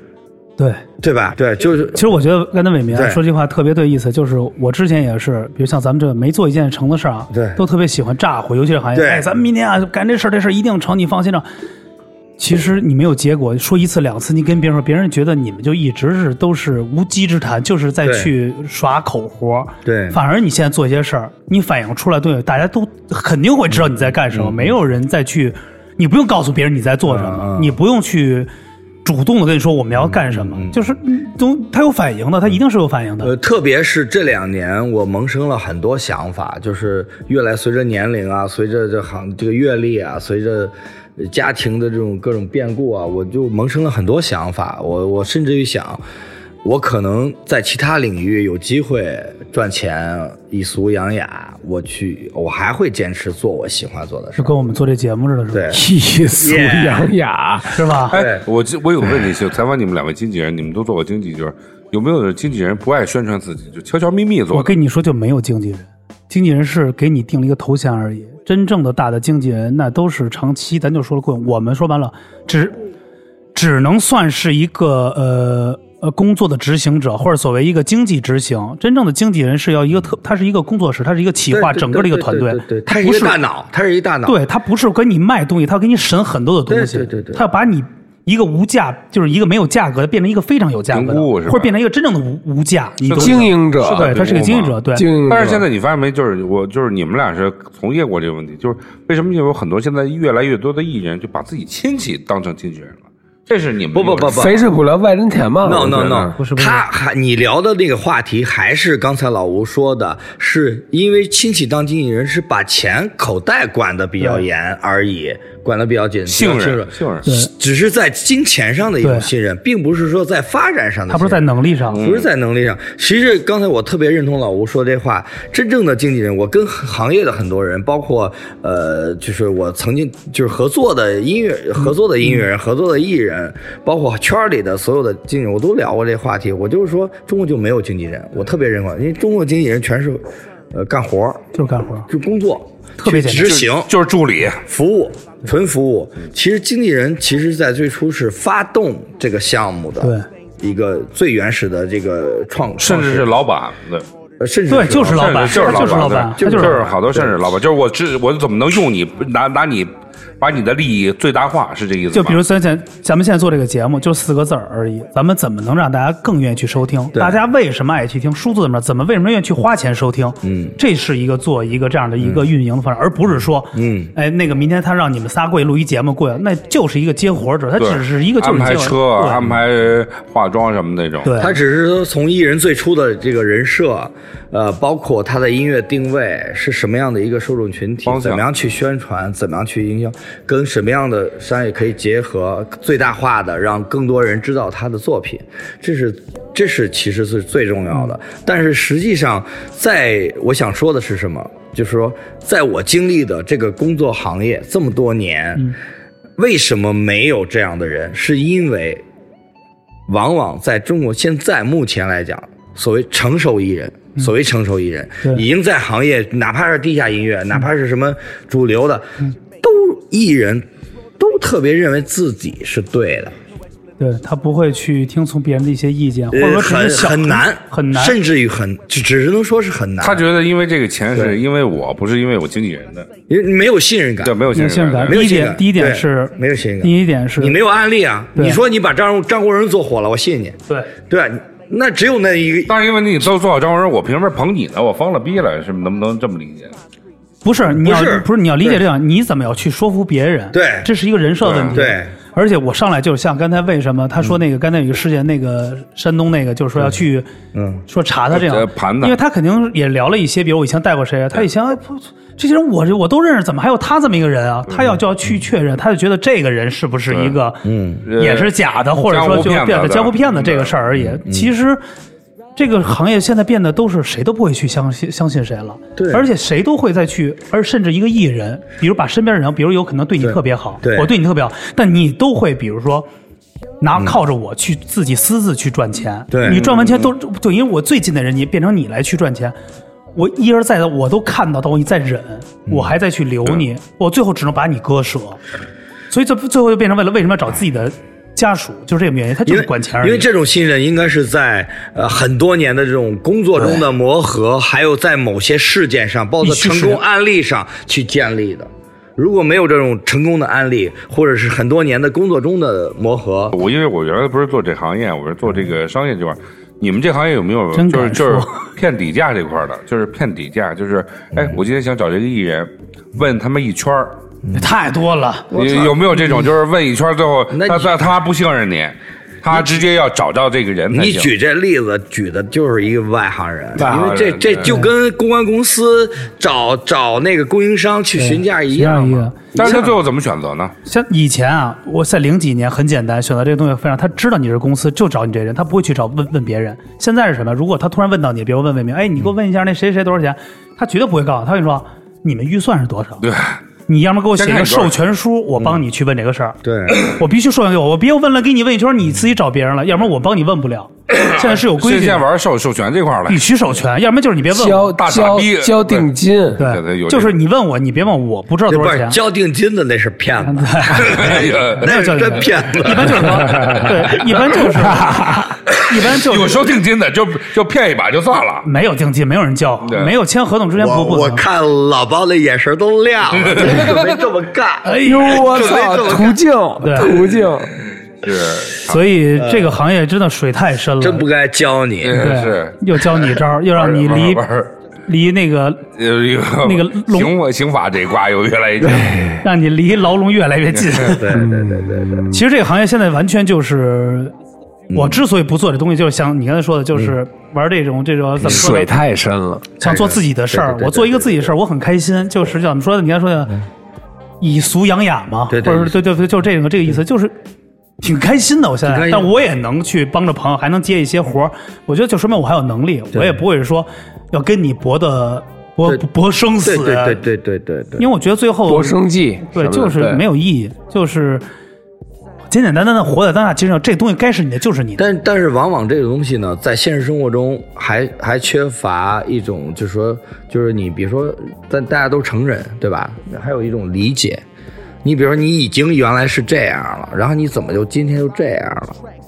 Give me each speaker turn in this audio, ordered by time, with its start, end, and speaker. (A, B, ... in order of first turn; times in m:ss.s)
0:00.6-0:00.8 A
0:01.0-0:02.1 B
0:01.9-0:11.5 A
0:02.9-0:03.2 B
0:07.3-0:07.6 B
0:09.0-0:09.3 B
0:12.4-0:28.5 A
0:18.0-0:18.3 B
0:19.8-0:20.2 B
0:23.7-0:24.8 B
0:27.1-0:27.8 B
0:29.0-0:33.3 A
0:30.0-0:31.0 B
0:33.2-0:46.0 B
0:46.6-0:54.5 B
0:54.4-0:55.7 A
0:55.5-0:55.8 B
0:55.7-0:57.9 C
0:56.4-0:57.1 B
0:57.7-0:58.2 A
0:58.1-1:04.7 D
0:58.1-0:58.4 B
1:04.5-1:12.8 A
1:13.6-1:23.4 A
1:21.5-1:24.4 B
1:24.3-1:35.0 A
1:26.7-1:27.5 B
1:30.9-1:31.7 D
1:33.0-1:44.6 D
1:33.1-1:34.2 C
1:35.0-1:35.7 C
1:43.9-1:44.6 B
1:44.3-1:46.3 C
1:45.6-2:21.5 B
1:46.4-1:46.8 A
1:56.3-1:57.3 D
1:57.2-1:57.5 A
1:59.0-1:59.3 A
2:01.1-2:02.0 A
2:01.9-2:02.3 D
2:21.5-2:22.1 A
2:22.1-2:23.9 B
2:23.0-2:23.6 A
2:23.4-2:24.6 D
2:24.6-2:33.3 B
2:30.0-2:30.3 A
2:32.8-2:34.1 D
2:34.4-2:37.5 B
2:34.7-2:36.8 A
2:35.0-2:42.4 D
2:42.1-2:59.4 A
2:47.1-2:47.4 B
2:50.4-2:50.8 B
2:52.2-2:52.5 B
2:53.7-2:54.1 B
2:57.8-3:01.4 D
3:01.2-3:01.6 A
3:01.4-3:25.7 B
3:08.1-3:08.5 D
3:26.4-3:29.0 B
3:30.1-3:40.6 B
3:41.2-3:43.4 B
3:44.0-3:48.2 A
3:46.3-3:50.2 B
3:50.0-3:53.1 D
3:51.1-3:51.4 B
3:53.3-3:54.5 B
3:54.2-3:55.2 D
3:54.5-3:57.6 A
3:55.0-4:02.8 B
3:58.4-3:58.6 A
4:02.7-4:06.8 D
4:07.4-4:17.3 A
4:07.6-4:08.8 B
4:10.5-4:10.9 B
4:11.4-4:11.8 D
4:11.7-4:12.1 B
4:17.5-4:17.8 B
4:17.9-4:27.6 A
4:18.3-4:19.2 D
4:27.1-4:27.4 D
4:27.6-4:28.1 B
4:28.0-4:30.8 D
4:28.2-4:31.8 A
4:31.0-4:31.5 B
4:32.6-4:43.1 A
4:36.0-4:36.3 B
4:40.2-4:41.1 B
4:43.8-4:49.6 A
4:46.3-4:47.1 B
4:50.2-4:55.4 A
4:52.7-4:53.0 B
4:56.1-5:00.3 A
4:59.5-5:13.6 B
5:06.4-5:07.0 A
5:13.5-5:24.2 D
5:17.7-5:18.6 A
5:21.3-5:21.6 B
5:24.4-5:24.7 B
5:24.5-5:25.5 A
5:25.5-5:26.4 B
5:25.5-5:31.3 D
5:27.5-5:28.1 B
5:30.9-5:39.8 B
5:33.8-5:34.3 C
5:33.8-5:34.7 D
5:34.6-5:34.9 A
5:38.2-5:39.9 A
5:39.6-5:40.7 D
5:40.8-5:53.3 A
5:53.2-5:53.6 D
5:53.9-6:02.3 A
5:54.4-5:55.0 D
5:56.6-5:57.2 B
6:01.1-6:03.4 D
6:03.3-6:05.0 A
6:04.5-6:06.6 C
6:04.9-6:07.4 D
6:06.6-6:09.2 A
6:08.7-6:14.6 B
6:10.4-6:16.7 A
6:11.0-6:11.9 D
6:13.7-6:13.9 D
6:15.7-6:18.7 D
6:18.6-6:21.4 A
6:19.9-6:20.2 D
6:20.8-6:26.4 B
6:23.4-6:24.0 D
6:23.6-6:23.9 C
6:24.8-6:25.4 A
6:25.0-6:27.8 C
6:26.8-6:27.2 A
6:28.2-6:29.1 D
6:28.9-6:31.3 A
6:29.3-6:29.8 B
6:31.0-6:32.4 B
6:32.0-6:34.7 D
6:32.2-6:34.4 A
6:35.1-6:35.9 A
6:36.0-6:39.3 D
6:36.6-6:37.3 A
6:38.8-6:39.4 C
6:39.4-6:41.4 A
6:41.0-6:42.2 B
6:41.3-6:42.4 C
6:42.3-6:44.3 A
6:44.9-6:45.3 B
6:44.9-6:49.0 A
6:48.4-6:49.7 C
6:49.8-6:51.5 B
6:49.8-6:53.6 A
6:54.4-6:57.4 A
6:55.5-6:56.0 B
6:58.0-7:07.2 A
6:58.8-6:59.3 B
7:06.6-7:08.1 B
7:08.0-7:09.0 A
7:08.7-7:10.2 C
7:09.5-7:11.5 A
7:12.5-7:15.0 A
7:15.0-7:24.4 B
7:25.0-7:29.0 B